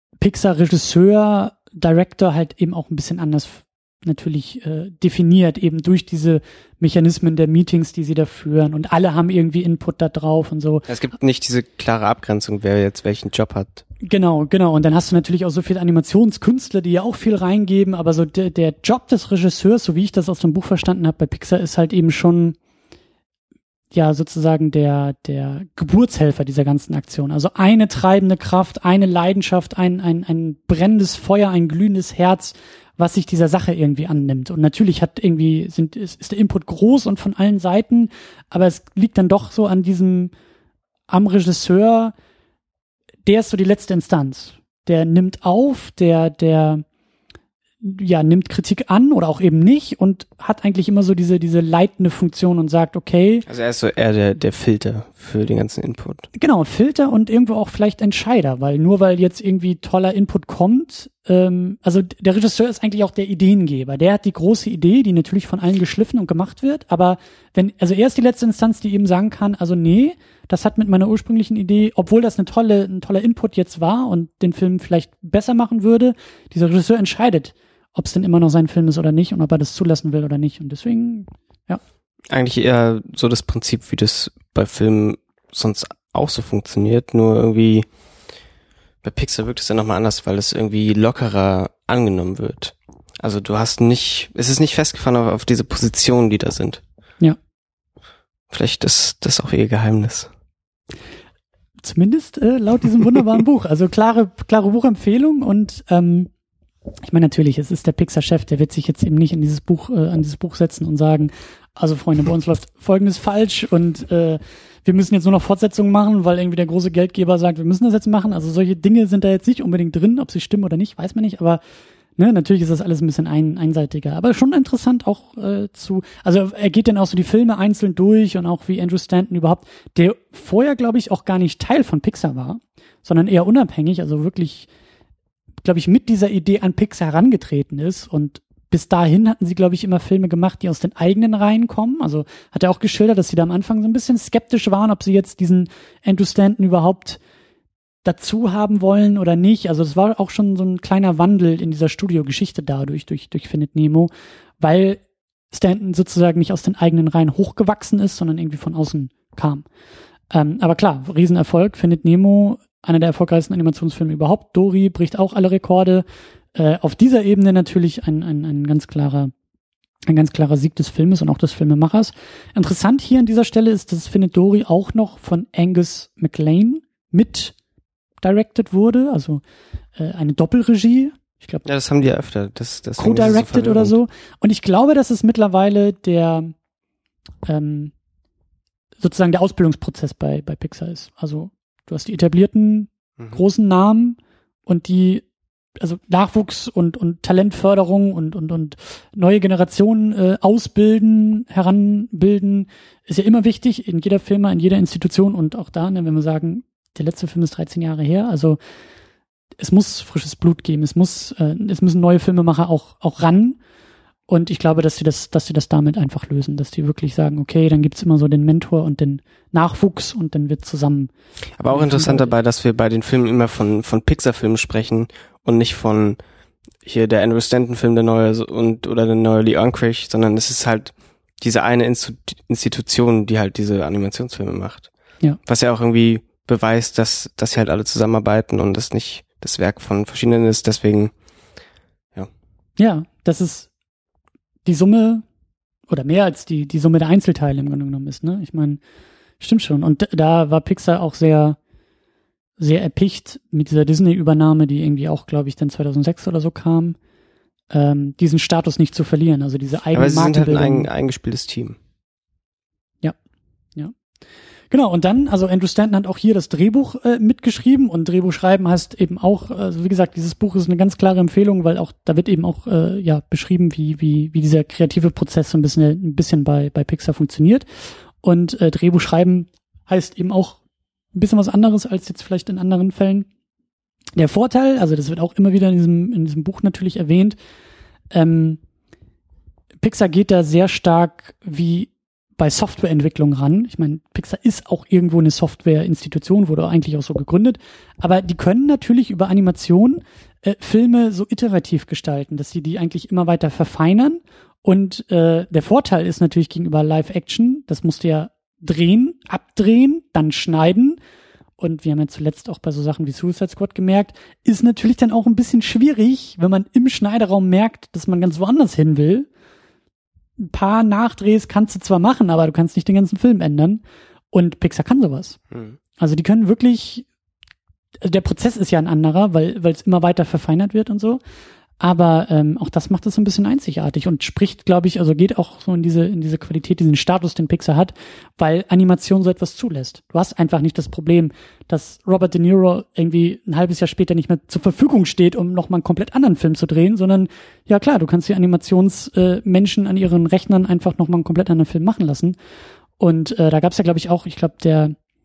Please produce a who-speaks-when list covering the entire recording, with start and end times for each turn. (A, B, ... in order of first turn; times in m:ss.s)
0:00.2-0:10.9 A
0:10.9-0:13.8 B
0:14.0-0:22.6 A
0:23.9-0:40.3 A
0:41.1-0:42.1 A
0:43.3-0:46.8 A
0:47.8-0:53.5 A
0:53.5-0:56.3 B
0:56.4-1:21.8 A
1:22.3-1:27.9 B
1:29.0-1:36.8 B
1:38.5-1:40.3 B
1:41.8-1:46.3 A
1:47.1-2:01.6 A
2:02.2-2:14.7 A
2:15.6-2:27.2 A
2:28.0-2:39.6 A
2:40.3-2:49.3 A
2:50.1-2:57.6 A
2:58.2-2:59.4 A
3:00.0-3:01.6 A
3:01.6-3:04.0 B
3:03.0-3:06.6 A
3:07.5-3:07.9 A
3:09.0-3:15.2 A
3:15.8-3:28.6 A
3:29.6-3:33.6 A
3:34.3-3:41.1 A
3:41.6-3:46.2 B
3:41.7-3:42.3 A
3:46.8-3:54.9 B
3:55.5-4:01.1 B
4:02.8-4:03.7 A
4:04.6-4:05.2 A
4:05.9-4:08.8 A
4:09.4-4:11.6 A
4:12.6-4:17.0 A
4:17.7-4:20.9 A
4:19.9-4:21.8 B
4:24.7-4:37.6 A
4:38.2-4:40.6 A
4:41.1-4:43.3 A
4:44.2-4:47.4 A
4:48.1-4:48.6 A
4:49.8-5:11.0 A
5:11.6-5:19.3 A
5:20.4-5:25.4 A
5:26.0-5:27.1 A
5:28.0-5:31.2 A
5:31.8-5:52.4 A
5:53.0-5:55.0 A